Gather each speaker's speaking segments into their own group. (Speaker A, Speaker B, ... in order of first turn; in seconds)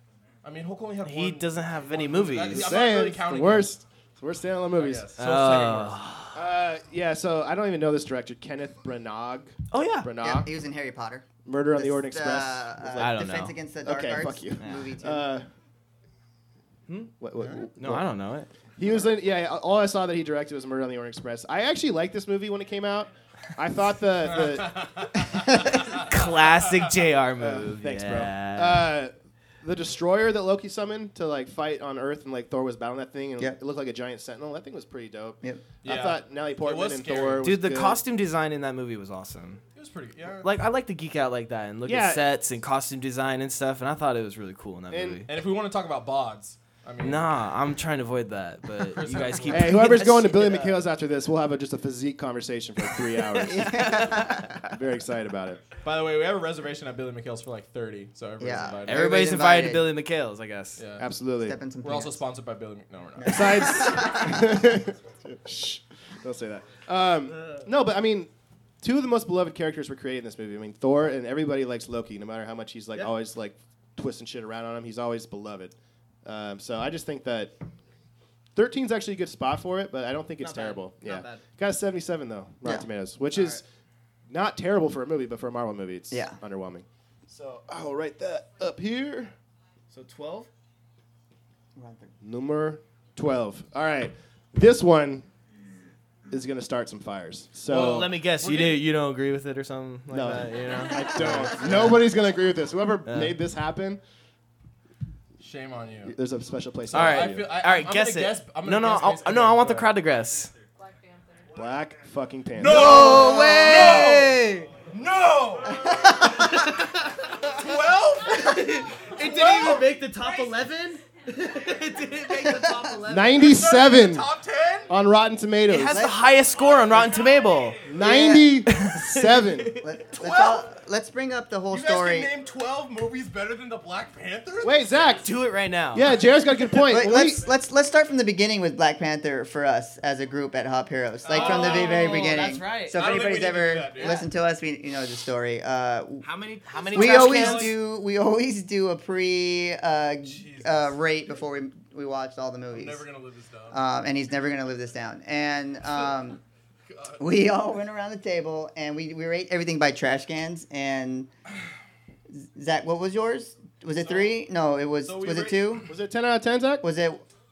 Speaker A: 0.4-3.7, 4.7-6.0, 24.3-25.4, 35.8-37.4, 39.7-40.5, 45.3-47.3, 48.8-50.0, 55.8-59.1, 60.8-61.1, 61.8-64.0, 97.7-98.8, 105.4-106.1, 106.9-109.9, 112.5-116.0, 117.5-118.6, 119.2-119.8, 123.3-124.9, 130.2-130.7, 131.7-135.1, 141.2-144.3, 146.8-147.8, 150.2-151.0, 152.7-153.8, 156.9-157.2, 164.0-164.4, 165.0-165.8
Speaker B: 1.0-2.7, 5.2-6.4, 9.7-10.1, 12.9-13.5, 14.6-14.9, 17.7-18.5, 25.9-28.9, 37.4-39.6, 40.4-45.3, 47.0-50.8, 53.6-54.4, 58.9-60.8, 67.3-67.6, 80.4-81.4, 83.3-83.6, 89.9-90.5, 97.7-102.0, 103.0-103.4, 106.9-110.5, 112.9-114.0, 116.3-117.0, 118.3-123.5, 125.7-127.8, 128.7-129.8, 135.2-136.2, 141.3-143.1, 144.0-144.3, 146.2-147.8
Speaker C: 2.5-5.1, 6.3-10.5, 11.4-13.2, 13.8-15.5, 17.2-18.1, 18.8-25.1, 27.4-38.0, 41.9-42.2, 44.9-45.2, 49.5-55.6, 61.0-61.6, 63.2-68.3, 68.8-75.7, 76.2-77.5, 78.5-83.6, 84.3-89.3, 92.2-95.3, 96.3-98.1, 100.1-104.0, 106.0-107.5, 111.5-113.2, 123.0-124.3, 124.9-126.1, 127.8-129.7, 134.6-135.3, 135.9-137.4, 165.9-166.8
Speaker D: 10.2-15.3, 53.4-54.6, 58.4-59.9, 61.4-62.2, 63.2-64.3, 86.1-86.4, 91.7-92.1, 112.6-114.7, 115.7-116.5, 125.9-126.2, 128.0-128.6, 129.8-132.3, 136.8-146.2, 146.9-153.0, 153.7-156.4, 157.2-161.3, 162.3-165.9, 166.8-167.2